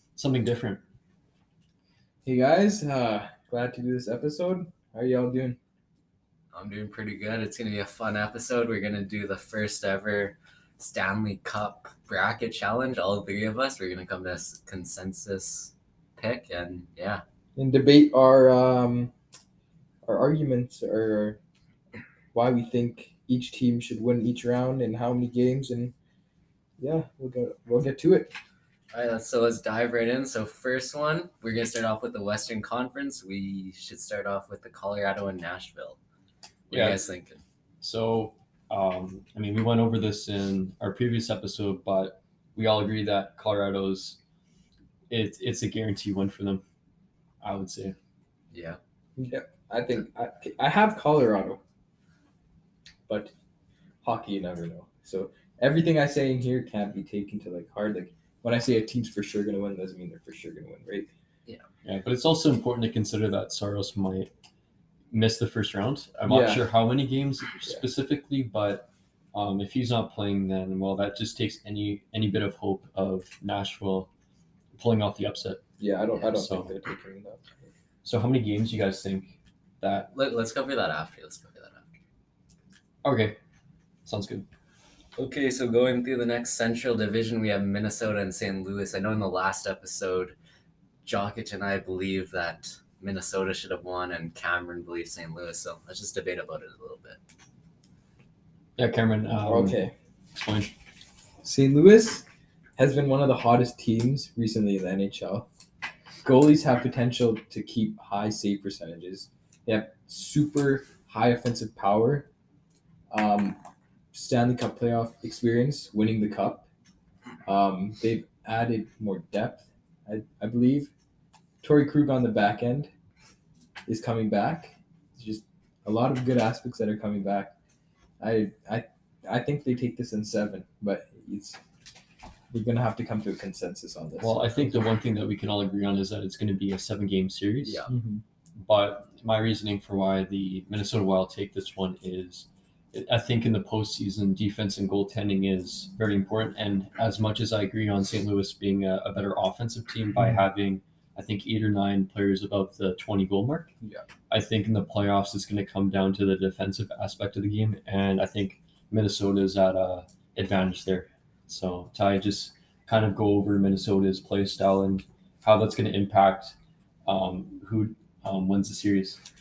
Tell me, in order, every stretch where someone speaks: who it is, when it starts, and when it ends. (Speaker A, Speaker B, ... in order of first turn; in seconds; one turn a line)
Speaker A: 0.2-0.8
Speaker B: 2.2-5.6
Speaker C: 6.5-17.2
Speaker B: 17.6-19.1
Speaker B: 20.0-21.4
Speaker B: 22.3-25.9
Speaker B: 26.8-28.3
Speaker C: 28.9-36.0
Speaker C: 36.7-37.4
Speaker A: 36.7-37.0
Speaker A: 37.8-44.2
Speaker A: 45.1-46.6
Speaker A: 47.4-48.0
Speaker C: 48.5-48.8
Speaker B: 49.2-51.6
Speaker B: 53.1-53.3
Speaker B: 54.0-61.1
Speaker A: 61.8-64.3
Speaker A: 65.1-74.1
Speaker B: 66.3-66.7
Speaker A: 74.7-75.7
Speaker B: 75.8-77.7
Speaker A: 76.2-76.7
Speaker A: 78.0-80.1
Speaker C: 80.1-81.9
Speaker A: 83.0-83.4
Speaker A: 84.0-84.5
Speaker C: 85.2-90.3
Speaker C: 91.0-97.2
Speaker A: 98.8-99.8
Speaker B: 99.4-99.9
Speaker A: 100.3-100.7
Speaker B: 101.4-102.2
Speaker B: 102.8-105.5
Speaker B: 106.2-112.3
Speaker B: 113.1-113.6
Speaker B: 114.1-116.7
Speaker B: 117.5-120.9
Speaker B: 121.6-122.9
Speaker B: 123.9-127.5
Speaker B: 128.2-131.6
Speaker B: 132.5-134.8
Speaker A: 134.2-137.8
Speaker C: 137.6-137.9
Speaker B: 137.9-138.2
Speaker A: 138.6-153.7
Speaker A: 154.3-166.6
Speaker A: 167.1-169.2